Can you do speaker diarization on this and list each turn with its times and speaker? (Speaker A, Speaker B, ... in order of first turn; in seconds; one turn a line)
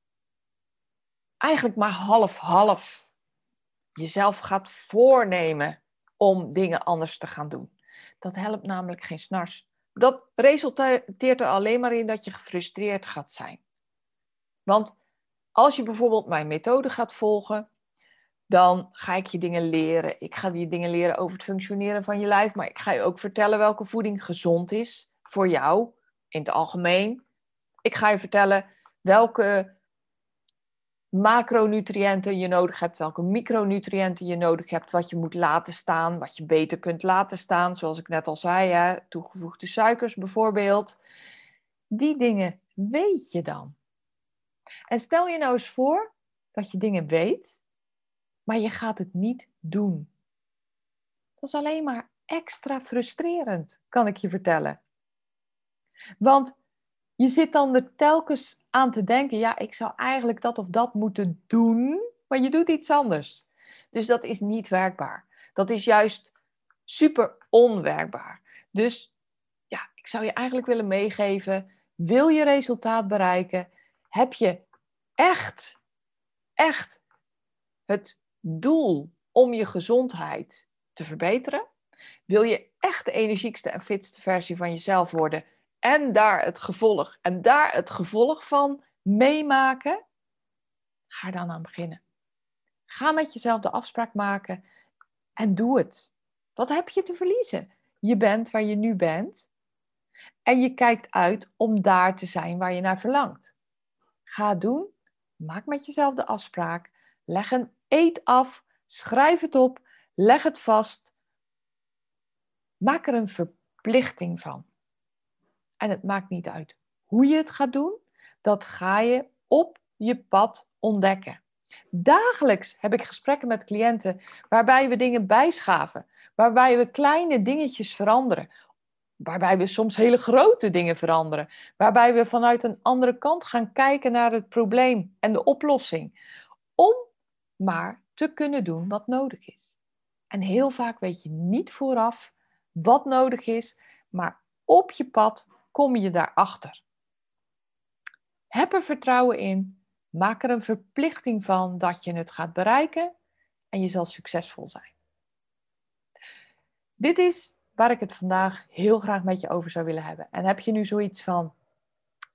Speaker A: 1.4-3.1
Speaker A: 4.0-13.6
Speaker A: 14.7-14.9
Speaker A: 15.6-17.7
Speaker A: 18.5-27.2
Speaker A: 27.8-29.8
Speaker A: 31.1-41.0
Speaker A: 41.9-43.8
Speaker A: 44.9-47.6
Speaker A: 48.5-50.1
Speaker A: 51.4-54.8
Speaker A: 56.2-56.5
Speaker A: 57.2-66.3
Speaker A: 66.9-69.1
Speaker A: 69.7-74.6
Speaker A: 75.2-75.8
Speaker A: 76.6-77.0
Speaker A: 77.9-81.6
Speaker A: 82.3-90.0
Speaker A: 91.1-92.0
Speaker A: 92.9-94.6
Speaker A: 95.4-99.5
Speaker A: 100.5-103.5
Speaker A: 104.2-111.1
Speaker A: 112.8-114.6
Speaker A: 115.8-121.4
Speaker A: 121.9-128.5
Speaker A: 129.2-136.1
Speaker A: 136.8-137.1
Speaker A: 137.6-139.6
Speaker A: 140.3-146.8
Speaker A: 148.5-153.1
Speaker A: 153.7-154.9
Speaker A: 157.0-161.5